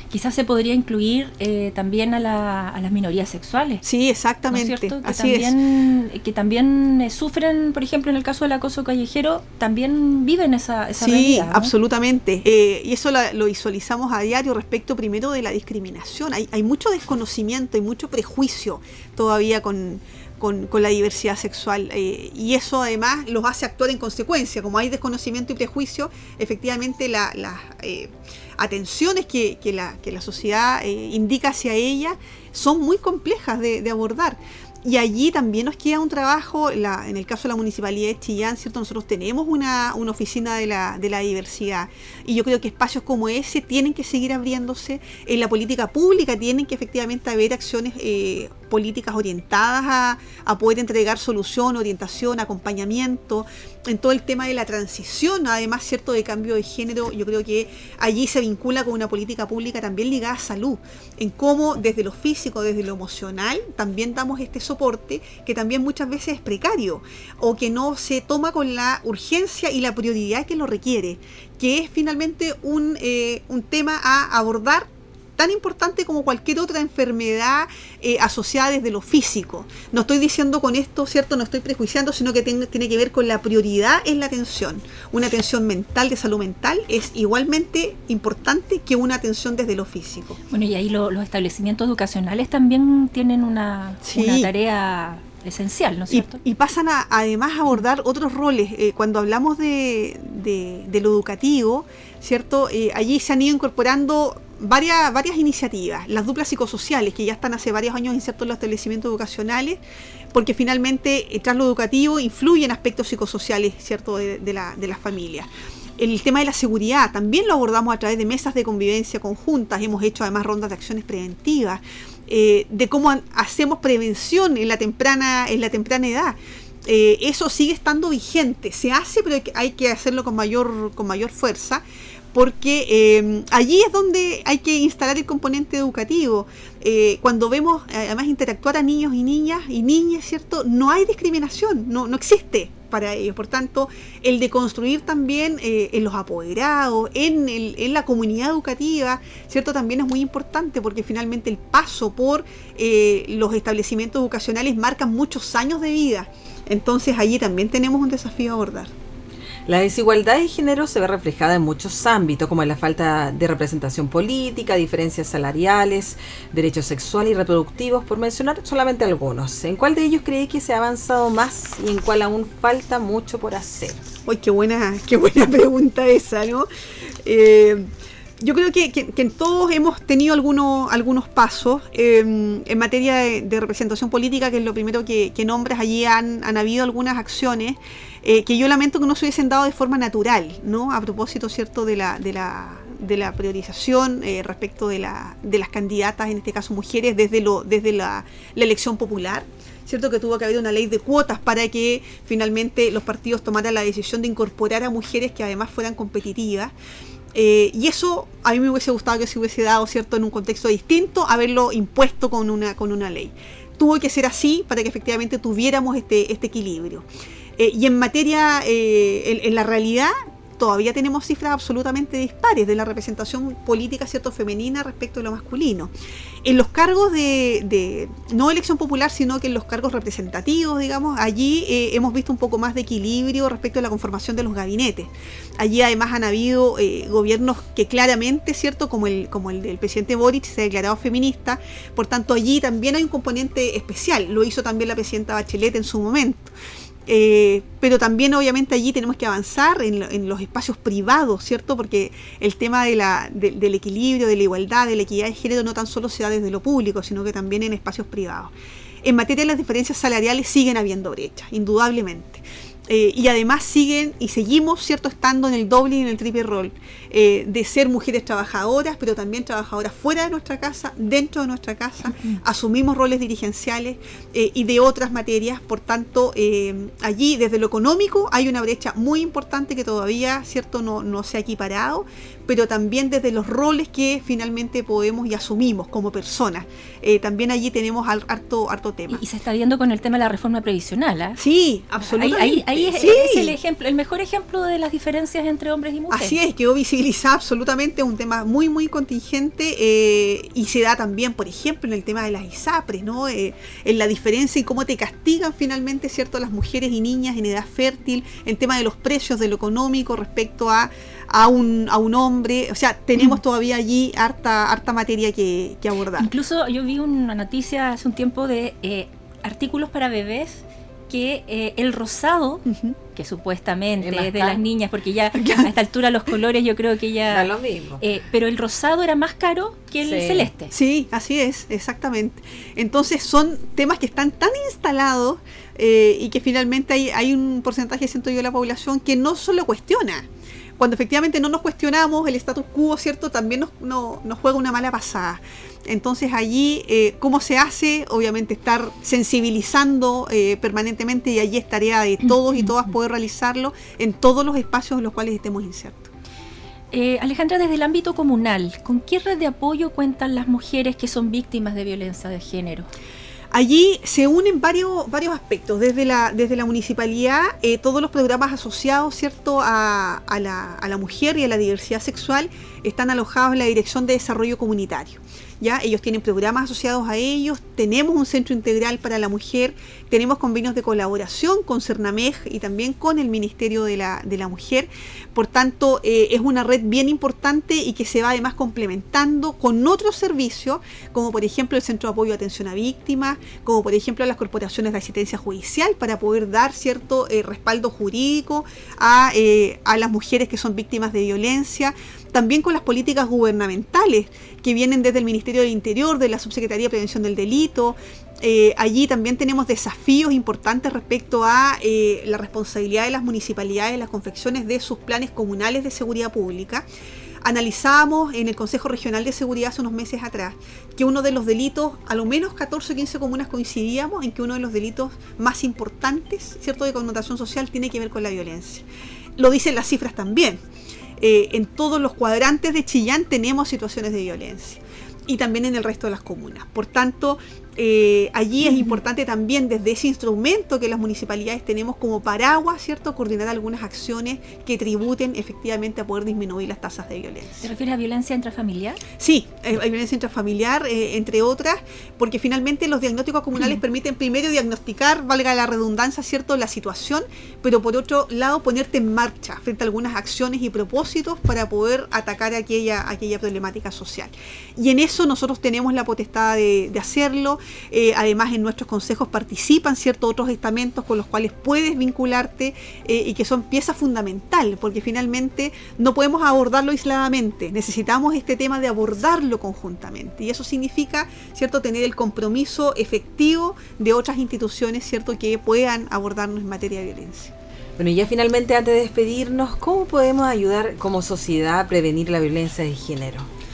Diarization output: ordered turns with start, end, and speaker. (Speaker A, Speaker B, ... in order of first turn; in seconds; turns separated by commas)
Speaker A: 0.1-3.8, Speaker B: 3.8-5.6, Speaker A: 4.5-11.7, Speaker B: 11.0-90.4, Speaker A: 90.5-96.4, Speaker B: 94.0-94.5, Speaker B: 96.1-109.8, Speaker B: 110.3-158.9, Speaker C: 159.7-174.0, Speaker B: 174.3-176.7, Speaker B: 177.2-177.9, Speaker B: 178.4-206.7, Speaker B: 207.3-217.1, Speaker B: 217.6-225.9, Speaker B: 226.4-246.6, Speaker B: 247.1-258.5, Speaker B: 259.0-289.2, Speaker A: 272.1-272.4, Speaker A: 289.1-291.4, Speaker B: 291.4-293.6, Speaker A: 292.0-296.4, Speaker B: 296.1-316.3, Speaker A: 316.2-330.7, Speaker B: 322.7-322.9, Speaker C: 324.0-324.6, Speaker B: 325.4-325.7, Speaker C: 327.3-328.0, Speaker C: 330.0-330.5, Speaker B: 330.7-340.3, Speaker B: 340.8-356.1, Speaker A: 352.3-352.7, Speaker A: 356.9-362.9, Speaker B: 363.5-416.9, Speaker B: 417.4-430.6, Speaker B: 431.2-447.6, Speaker A: 447.6-449.0, Speaker B: 449.2-487.5, Speaker C: 488.0-493.5